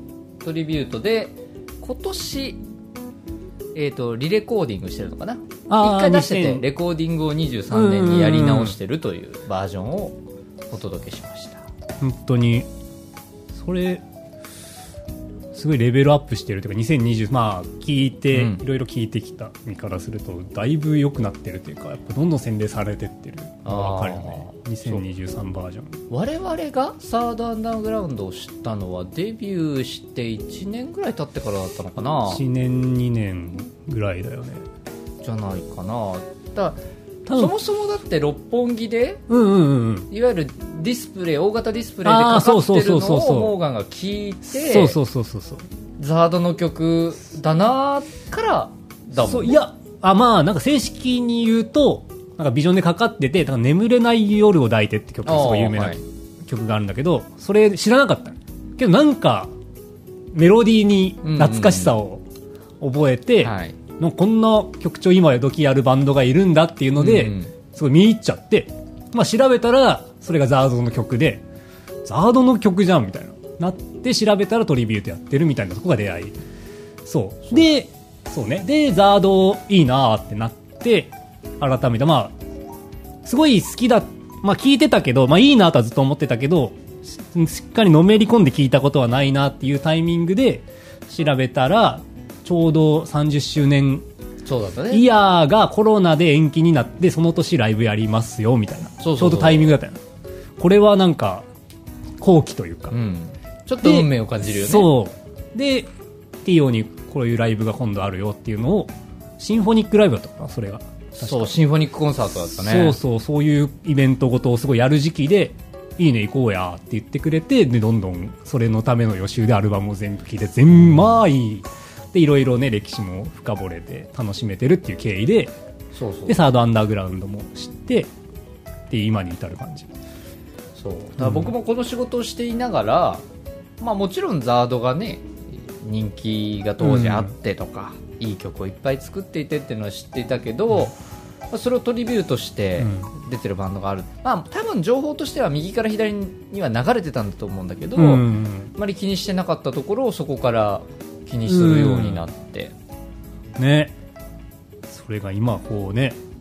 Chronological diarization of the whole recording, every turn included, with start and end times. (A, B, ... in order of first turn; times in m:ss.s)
0:00.4-0:02.6 A
0:03.7-0:10.2 A
0:05.7-0:06.6 B
0:07.7-0:08.8 B
0:10.7-0:11.6 A
0:12.0-0:12.7 B
0:13.5-0:14.0 B
0:15.5-0:26.0 B
0:18.3-0:18.6 A
0:23.6-0:25.0 A
0:26.1-0:32.4 A
0:32.3-0:34.6 B
0:35.2-0:36.8 A
0:37.2-0:37.5 B
0:37.3-0:39.2 A
0:39.3-0:40.1 B
0:40.1-0:45.0 A
0:42.0-0:43.6 B
0:44.5-0:45.6 B
0:46.0-0:49.6 A
0:49.2-0:59.5 B
0:55.2-0:56.0 A
1:00.3-1:02.2 B
1:01.2-1:02.0 A
1:02.8-1:11.4 B
1:03.4-1:03.8 A
1:07.0-1:07.5 A
1:12.0-1:16.4 B
1:17.0-1:22.4 B
1:23.2-1:34.0 B
1:34.4-1:35.0 A
1:34.9-1:40.0 B
1:39.0-1:39.7 A
1:40.6-1:41.5 B
1:42.2-1:43.0 B
1:42.9-1:44.9 A
1:43.8-1:45.9 B
1:46.4-1:51.6 B
1:51.2-1:53.0 A
1:52.5-2:05.5 B
2:05.9-2:06.4 A
2:06.3-2:08.1 B
2:08.9-2:09.9 B
2:10.8-2:13.2 A
2:11.2-2:11.5 B
2:13.8-2:20.9 A
2:16.8-2:17.3 B
2:21.5-2:32.7 A
2:22.8-2:23.1 B
2:27.9-2:28.7 B
2:31.4-2:32.3 B
2:33.6-2:33.9 B
2:34.9-2:36.2 B